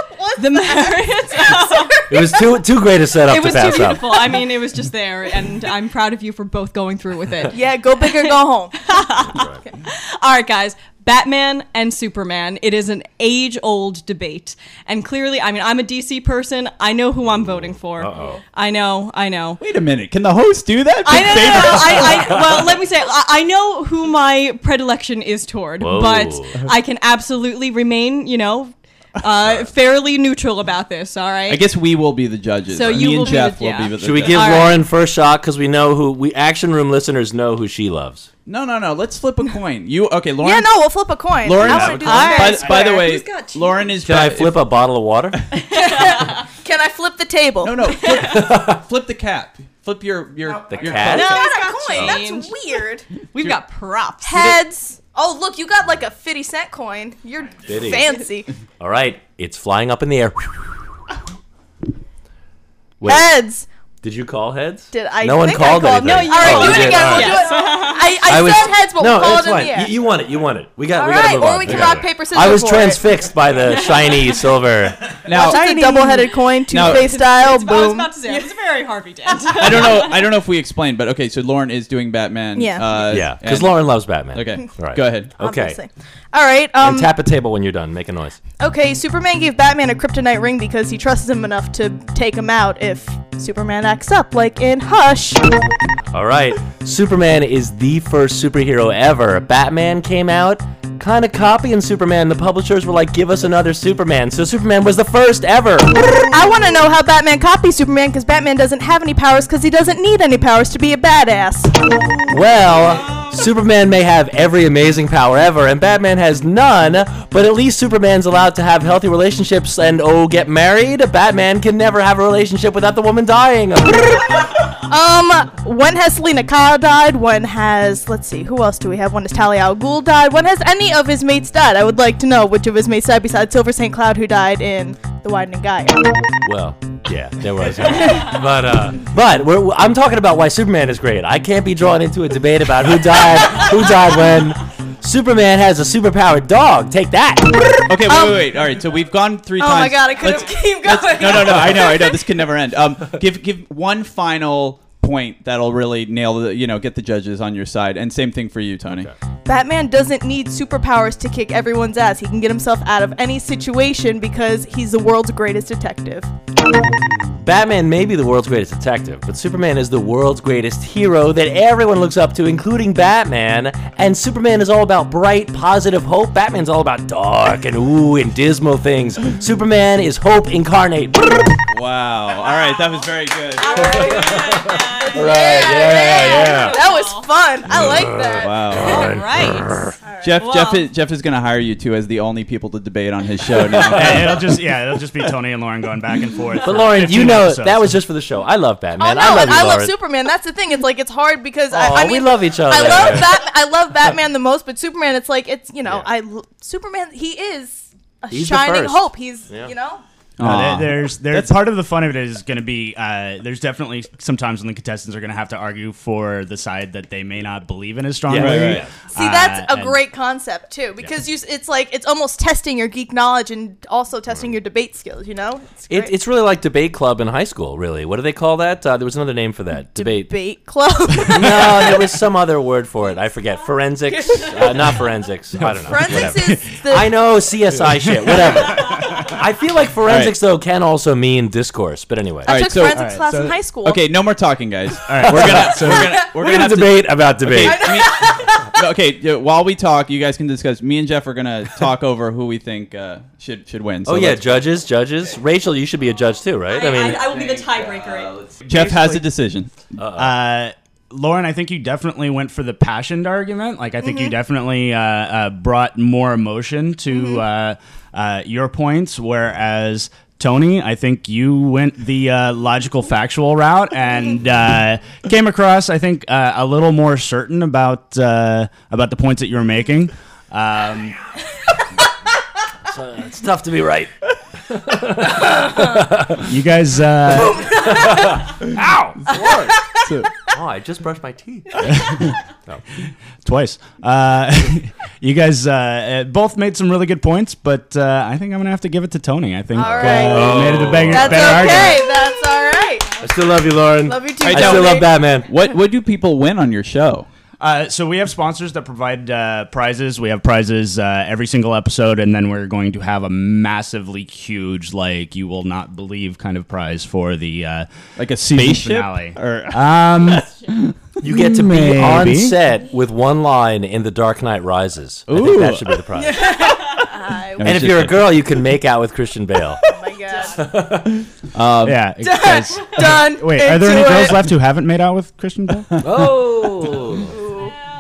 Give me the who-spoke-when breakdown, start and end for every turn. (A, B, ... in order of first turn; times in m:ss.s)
0:00.1-0:02.1 A
0:00.4-0:02.0 B
0:02.1-0:04.3 C
0:03.3-0:19.6 B
0:07.5-0:08.9 A
0:09.3-0:09.6 C
0:17.2-0:18.4 C
0:19.6-0:22.6 D
0:21.0-0:31.7 B
0:25.8-0:26.5 C
0:29.4-0:29.7 C
0:31.5-0:34.7 D
0:32.7-0:34.8 B
0:34.0-0:38.3 C
0:38.4-0:40.8 D
0:40.4-0:43.2 A
0:41.4-0:44.6 D
0:41.6-0:42.4 C
0:42.0-0:43.9 B
0:44.0-0:45.4 C
0:45.6-0:48.0 A
0:45.8-0:46.4 B
0:47.6-0:51.5 D
0:48.2-0:48.8 C
0:50.7-0:52.2 C
0:51.0-0:54.6 B
0:51.0-0:53.0 A
0:54.2-0:58.5 A
0:57.6-0:58.0 C
0:58.8-1:00.8 C
1:03.0-1:03.3 C
1:03.0-1:03.6 A
1:04.0-1:07.5 C
1:04.9-1:09.9 A
1:06.0-1:08.5 B
1:08.2-1:15.1 C
1:10.9-1:13.0 A
1:11.7-1:12.0 D
1:13.6-1:14.5 B
1:15.2-1:17.1 D
1:15.3-1:18.4 A
1:15.5-1:16.2 B
1:16.8-1:20.3 B
1:19.5-1:25.3 D
1:22.5-1:22.9 A
1:23.0-1:25.8 C
1:25.4-1:27.1 A
1:26.8-1:28.4 C
1:28.6-1:35.5 A
1:36.1-1:46.2 C
1:46.3-1:51.7 A
1:52.3-2:04.4 C
2:04.8-2:16.1 A
2:16.4-2:27.8 C
2:17.9-2:18.3 A
2:27.9-2:39.1 D
2:28.1-2:28.5 A
2:29.6-2:32.2 A
2:38.9-2:39.1 C
2:39.4-2:46.3 A
2:47.4-3:01.5 C
3:01.7-3:04.2 D
3:02.5-3:03.0 B
3:03.6-3:07.3 B
3:03.8-3:06.8 C
3:05.0-3:08.5 A
3:07.7-3:10.0 C
3:08.4-3:09.2 D
3:08.8-3:09.8 B
3:10.2-3:14.5 D
3:10.4-3:10.9 B
3:13.5-3:14.4 C
3:13.9-3:18.0 E
3:16.6-3:19.9 C
3:19.0-3:30.0 A
3:21.7-3:23.4 C
3:28.3-3:29.7 C
3:30.4-3:31.5 D
3:30.4-3:40.0 E
3:38.3-3:38.9 C
3:38.3-3:38.8 D
3:39.1-3:46.1 A
3:45.9-3:50.3 C
3:49.9-3:52.1 A
3:51.3-4:02.8 C
3:54.2-3:54.7 A
3:55.6-3:56.6 E
3:55.8-3:57.1 A
3:58.0-3:59.3 E
4:00.0-4:00.3 D
4:02.4-4:04.0 A
4:02.4-4:03.1 D
4:02.9-4:03.6 E
4:03.8-4:14.6 D
4:05.1-4:06.2 E
4:05.2-4:08.1 C
4:07.6-4:08.7 A
4:14.0-4:17.3 C
4:16.7-4:18.3 B
4:17.0-4:19.7 D
4:18.7-4:19.2 E
4:20.0-4:20.4 C
4:20.2-4:41.2 E
4:24.0-4:24.3 A
4:27.1-4:27.4 A
4:42.9-4:44.1 C
4:44.7-4:46.4 C
4:46.4-4:47.9 E
4:47.3-4:49.9 C
4:50.0-4:50.3 D
4:50.4-4:51.8 C
4:51.8-4:52.4 E
4:53.4-5:02.1 E
4:59.7-5:03.2 A
4:59.8-5:01.9 C
5:03.2-5:05.5 C
5:04.0-5:05.1 A
5:04.4-5:07.3 D
5:07.6-5:22.6 E
5:18.2-5:20.5 D
5:21.2-5:26.5 C
5:25.3-5:25.9 D
5:26.2-5:27.7 A
5:27.6-5:28.4 D
5:27.6-5:29.8 C
5:29.9-5:30.6 A
5:30.4-5:31.2 C
5:31.5-5:32.1 D
5:31.8-5:36.3 E
5:32.2-5:34.4 A
5:36.0-5:37.3 C
5:37.2-5:37.7 A